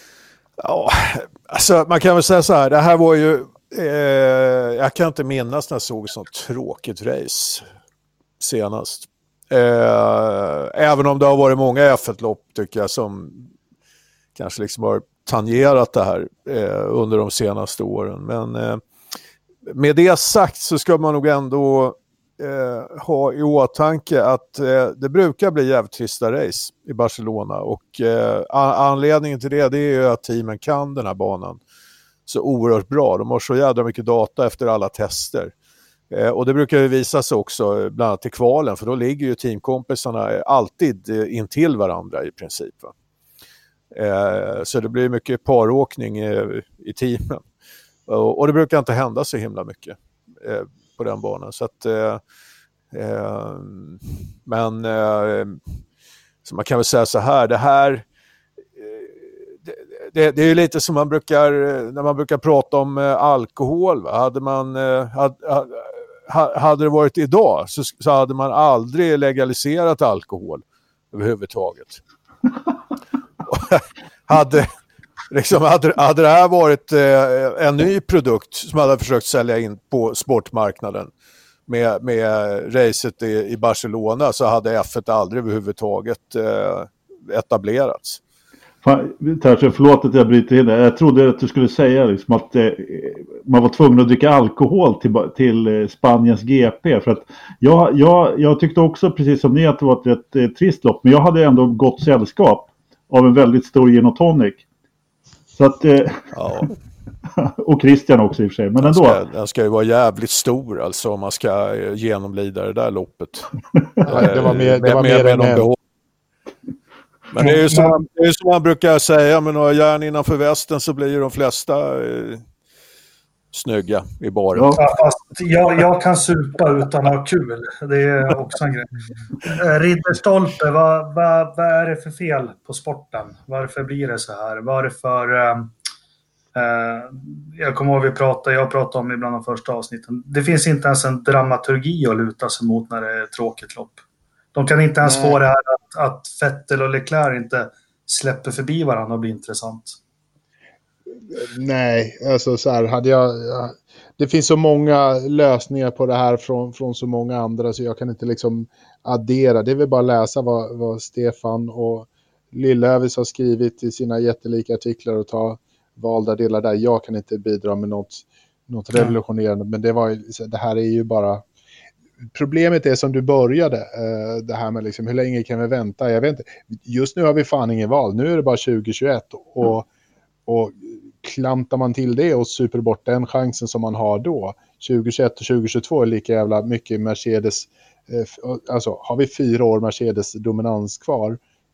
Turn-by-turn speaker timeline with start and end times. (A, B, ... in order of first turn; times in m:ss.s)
0:00.6-0:07.6 A
0:08.4-0:13.5 A
0:14.4-0:18.8 A
0:19.7-0:31.6 A
0:32.3-0:35.5 A
0:36.1-0:42.9 A
0:43.9-0:47.4 A
0:48.1-0:52.2 A
0:52.9-0:55.6 A
0:56.4-0:58.0 A
0:58.8-1:12.0 A
1:13.5-1:14.7 A
1:15.3-1:21.1 A
1:21.7-1:28.2 A
1:28.8-1:44.6 B
1:45.6-1:46.3 B
1:46.3-1:46.7 A
1:47.4-1:49.2 B
1:48.8-1:53.5 A
1:54.0-1:55.8 A
1:54.1-1:55.7 C
1:57.3-2:02.4 A
1:57.4-1:58.0 D
2:03.5-2:04.8 A
2:04.6-2:04.8 B
2:04.7-2:08.9 D
2:09.4-2:15.7 D
2:16.5-2:24.0 D
2:24.5-2:30.0 D
2:25.0-2:25.4 C
2:31.3-2:51.4 C
2:52.3-2:59.9 C
3:00.4-3:11.4 C